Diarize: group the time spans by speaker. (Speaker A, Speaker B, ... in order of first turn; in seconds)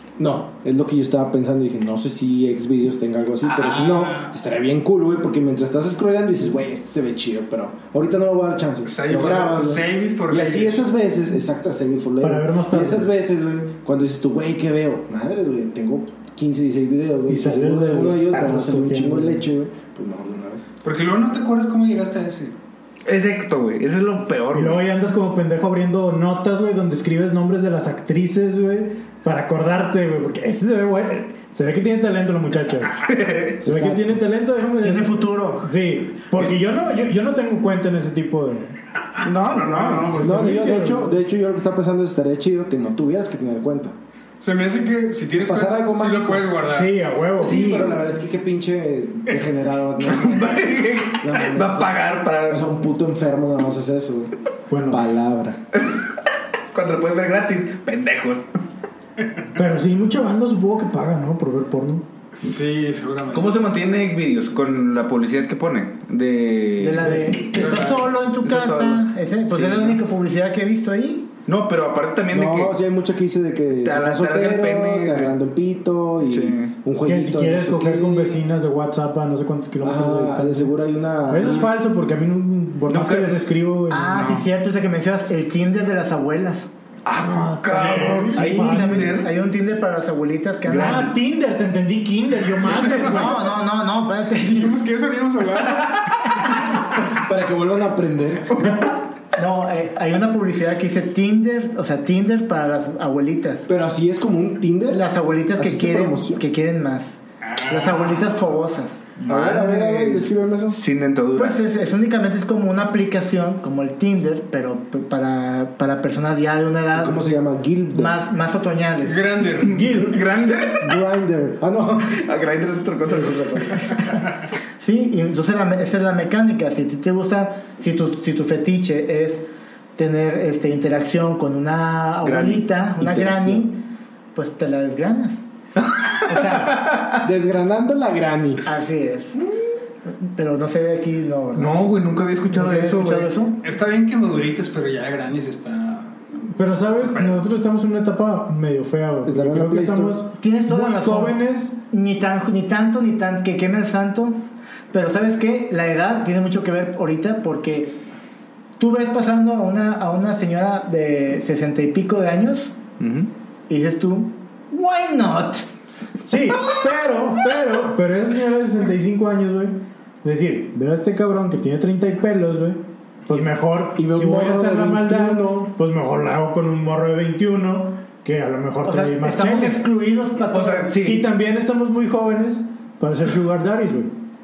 Speaker A: 0.2-20.7, 33.6-34.2, 40.2-44.0, 45.4-46.5, 47.4-54.3, 54.9-55.6, 72.3-78.4, 79.8-81.7, 97.1-98.6, 103.7-106.4, 109.3-110.8, 117.0-118.2, 120.8-122.2, 133.0-133.7, 137.2-138.7, 149.2-150.2, 174.0-175.7
Speaker B: 3.4-4.3, 8.8-10.9, 20.8-22.6, 39.2-40.6, 44.4-47.0, 62.3-63.6, 67.5-68.0, 88.1-88.3, 94.4-96.3, 107.4-108.5, 119.0-119.8, 143.6-146.2, 147.0-147.4
Speaker C: 12.2-13.1, 17.3-19.5, 24.5-33.0, 33.6-38.7, 40.1-41.2, 46.7-48.0, 54.7-55.0, 59.5-62.0, 67.0-67.4, 77.0-80.7, 81.3-84.4, 87.3-89.3, 90.7-93.5, 119.7-120.2, 146.5-151.8, 166.2-179.8, 181.0-184.1
Speaker D: 23.1-24.9, 33.0-33.6, 39.2-40.2, 50.0-52.7, 56.7-58.5, 63.3-67.2, 68.4-70.0, 71.5-72.7, 73.8-75.3, 76.3-76.7, 82.9-83.4, 87.1-89.3, 90.7-91.1, 95.8-96.2, 98.5-98.9, 109.2-111.6, 119.7-120.9, 122.1-124.2, 132.2-132.7, 135.8-137.2, 141.5-143.3, 163.0-163.3, 180.5-181.2
Speaker E: 34.8-35.7, 66.8-71.3, 83.9-86.7, 88.1-91.1, 92.9-94.8, 99.3-103.7, 104.9-109.2, 111.3-117.2, 117.9-119.2, 124.8-133.8, 134.3-135.4, 136.2-136.8, 138.6-139.4, 140.2-141.9, 142.5-143.6, 150.4-151.4, 151.9-158.0, 158.8-162.8, 163.7-165.7, 178.8-181.1